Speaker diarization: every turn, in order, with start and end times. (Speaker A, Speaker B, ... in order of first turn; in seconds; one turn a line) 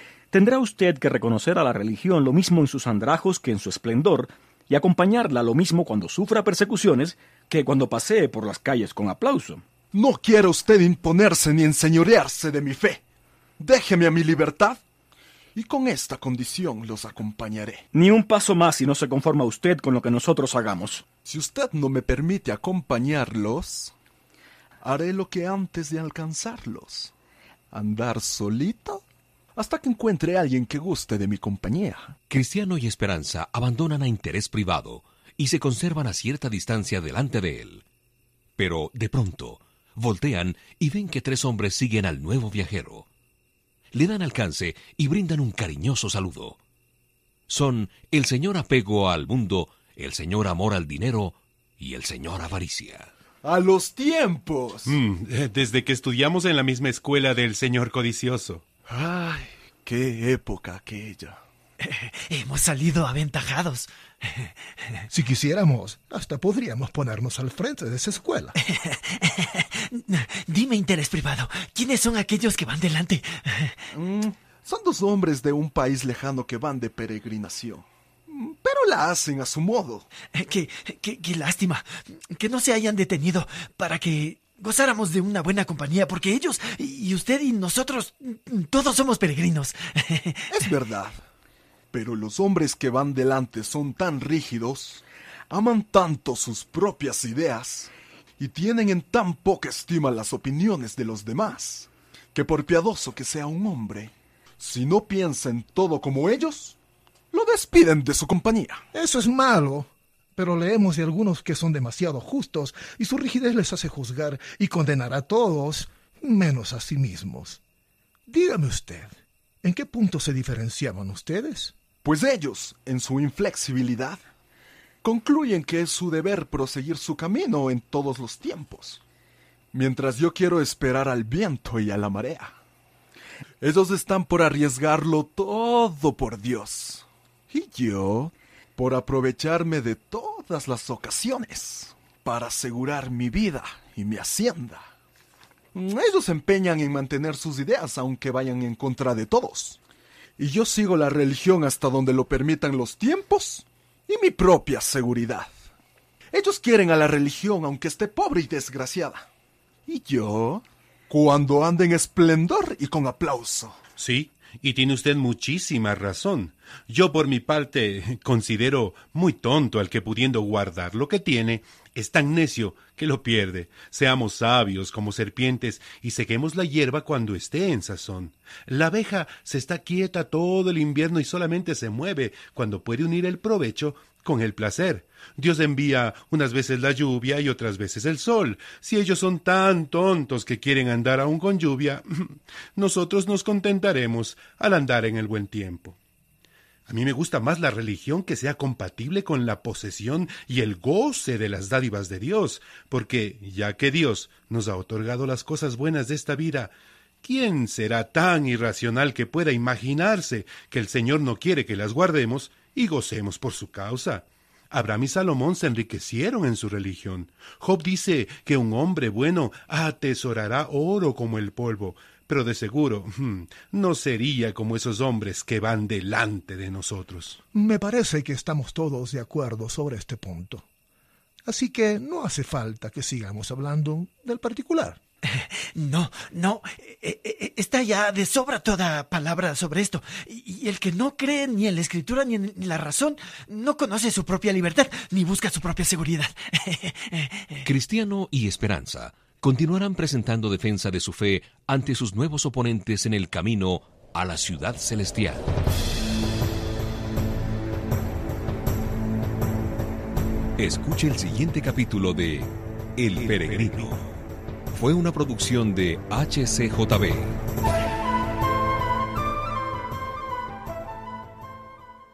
Speaker A: 0.3-9.6
Speaker B: 9.9-13.0
Speaker B: 13.6-14.8
Speaker B: 15.5-17.8
Speaker A: 17.9-21.0
Speaker B: 21.2-23.9
Speaker B: 24.8-27.1
Speaker B: 27.7-29.0
Speaker B: 29.6-32.1
Speaker C: 32.3-37.8
Speaker C: 38.6-43.1
Speaker C: 43.9-46.6
Speaker C: 47.5-53.1
Speaker B: 53.4-55.0
Speaker D: 54.9-58.6
Speaker B: 58.9-61.4
Speaker E: 61.8-64.8
Speaker F: 65.1-68.5
Speaker E: 68.6-73.9
Speaker B: 73.9-80.1
Speaker E: 80.3-90.7
Speaker B: 90.5-91.2
Speaker B: 91.9-106.8
Speaker B: 107.3-108.8
Speaker F: 108.9-117.6
Speaker F: 118.3-121.7
Speaker B: 122.0-124.2
Speaker B: 125.0-129.0
Speaker B: 129.7-132.6
Speaker B: 133.6-144.9
Speaker B: 145.7-149.8
Speaker B: 150.4-155.5
Speaker B: 156.3-159.3
Speaker B: 159.9-163.8
Speaker D: 164.0-196.0
Speaker D: 196.9-227.4
Speaker F: 227.5-230.7
Speaker F: 231.4-235.0
Speaker E: 235.3-247.7
Speaker C: 247.7-255.6
Speaker C: 260.6-264.1
Speaker C: 264.7-267.4